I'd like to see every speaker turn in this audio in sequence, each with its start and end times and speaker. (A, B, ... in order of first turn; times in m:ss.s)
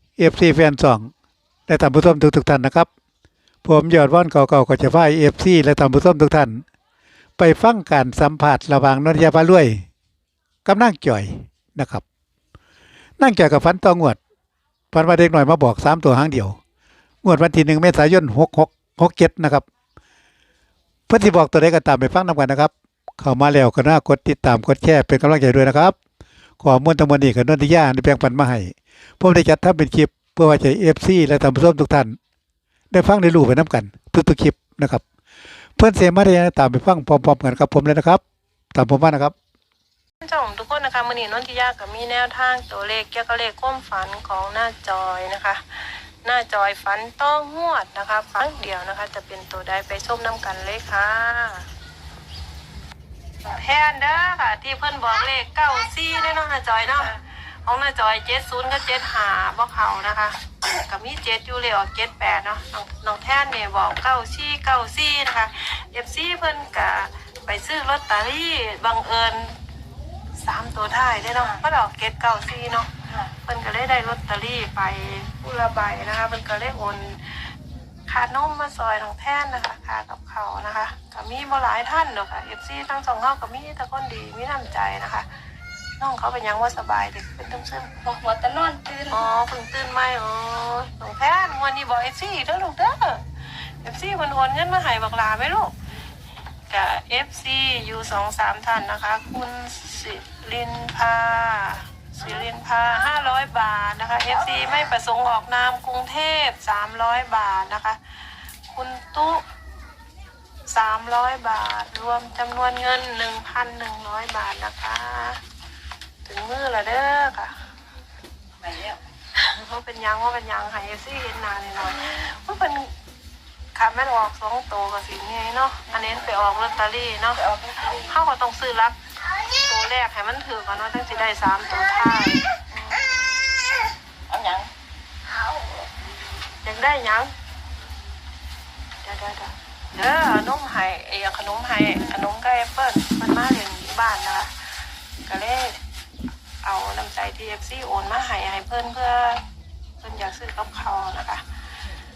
0:00.2-0:01.1 A
0:01.7-0:02.9 A
0:03.6-0:06.6 A
0:07.4-0:09.8 A
0:10.6-0:12.0 A
0:13.2-0:14.2 A
0:14.9-0:16.6 A
0:17.2-0:19.7 A
0:21.1-0:26.0 A
0:26.6-0:32.2 A
0:32.9-0:35.0 A
0:35.8-0:38.2 A
0:38.7-0:39.3 A
0:40.2-0:51.7 B
0:53.5-1:09.6 B
1:10.4-1:12.9 B
1:13.1-1:13.3 C
1:13.4-1:17.5 B
1:18.1-1:25.3 B
1:26.0-1:28.0 B
1:28.0-1:29.3 C
1:29.1-1:35.7 B
1:36.7-1:49.4 B
1:50.7-1:55.4 B
1:56.2-1:57.5 B
1:58.6-1:59.0 C
1:59.4-2:02.9 B
2:03.8-2:07.4 B
2:05.9-2:06.2 C
2:07.4-2:08.1 C
2:08.0-2:09.0 B
2:09.5-2:13.2 B
2:14.3-2:14.7 C
2:16.6-2:17.3 B
2:19.0-2:24.5 B
2:25.3-2:25.8 B
2:26.6-2:29.4 B
2:30.0-2:31.4 B